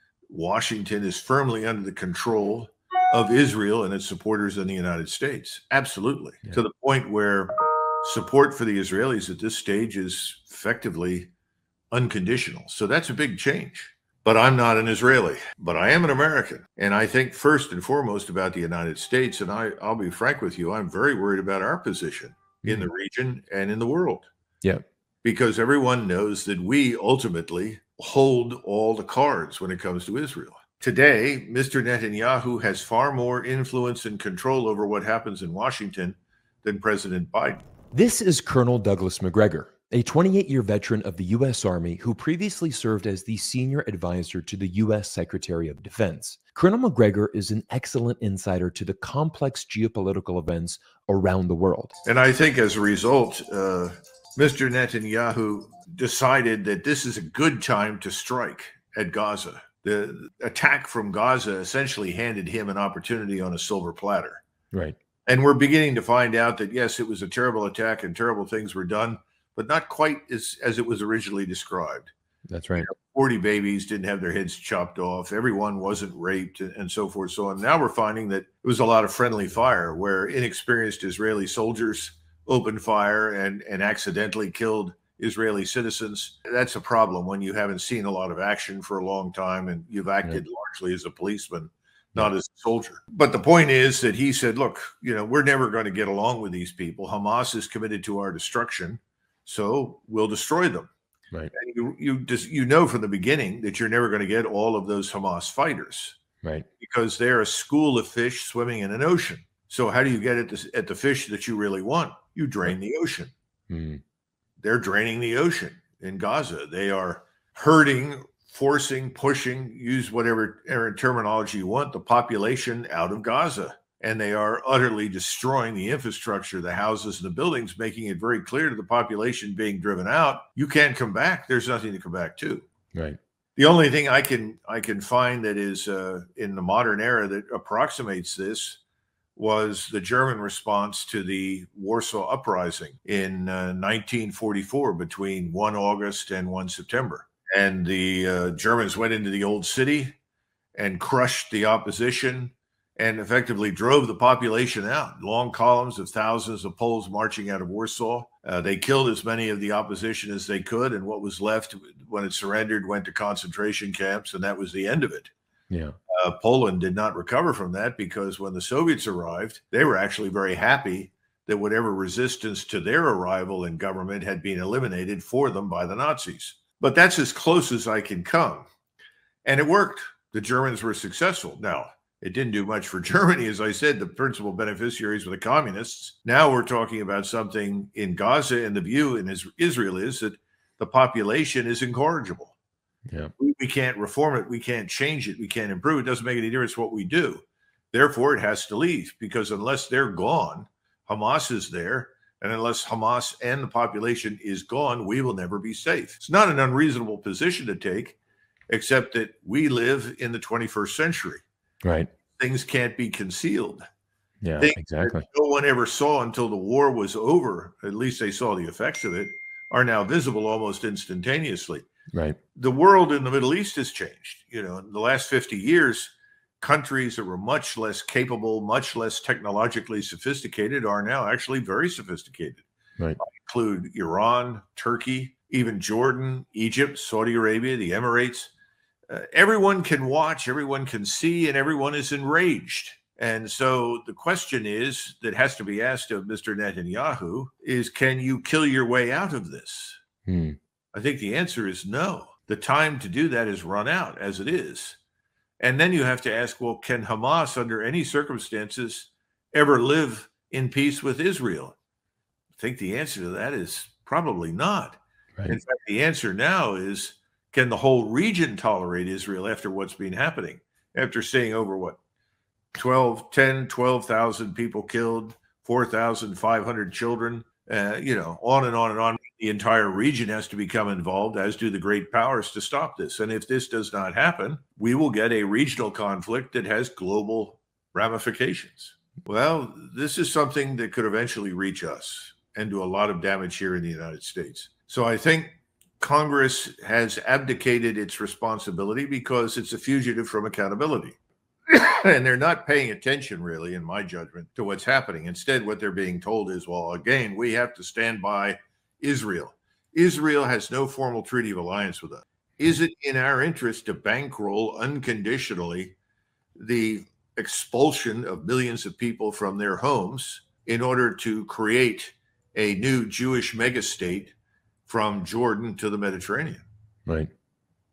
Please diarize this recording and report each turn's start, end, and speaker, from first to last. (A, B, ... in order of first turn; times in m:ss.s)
0:00.3-0:11.3 A
0:11.9-0:24.3 A
0:22.6-0:22.9 B
0:25.2-0:37.6 A
0:37.9-0:51.9 B
0:52.0-1:04.4 A
1:05.3-1:12.1 A
1:12.5-1:12.9 B
1:12.8-1:40.9 A
1:41.5-1:46.2 A
1:46.8-1:53.3 A
1:53.7-1:54.0 B
1:54.6-2:12.7 A
2:13.6-2:18.8 A
2:19.4-2:30.2 A
2:30.8-2:45.3 A
2:45.7-2:46.0 B
2:46.1-2:58.7 A
2:59.4-3:12.5 A
3:13.4-3:28.2 A
3:28.7-3:31.4 A
3:31.8-3:32.1 B
3:32.4-3:33.8 A
3:34.4-3:35.2 B
3:34.6-3:41.9 A
3:42.6-3:52.6 A
3:53.2-3:58.5 A
3:59.1-4:10.0 A
4:10.3-4:10.6 B
4:10.9-4:15.0 A
4:15.6-4:21.8 A
4:22.6-4:32.0 A
4:32.7-5:01.2 A
5:01.7-5:16.0 A
5:16.6-5:24.3 A
5:24.9-5:26.6 A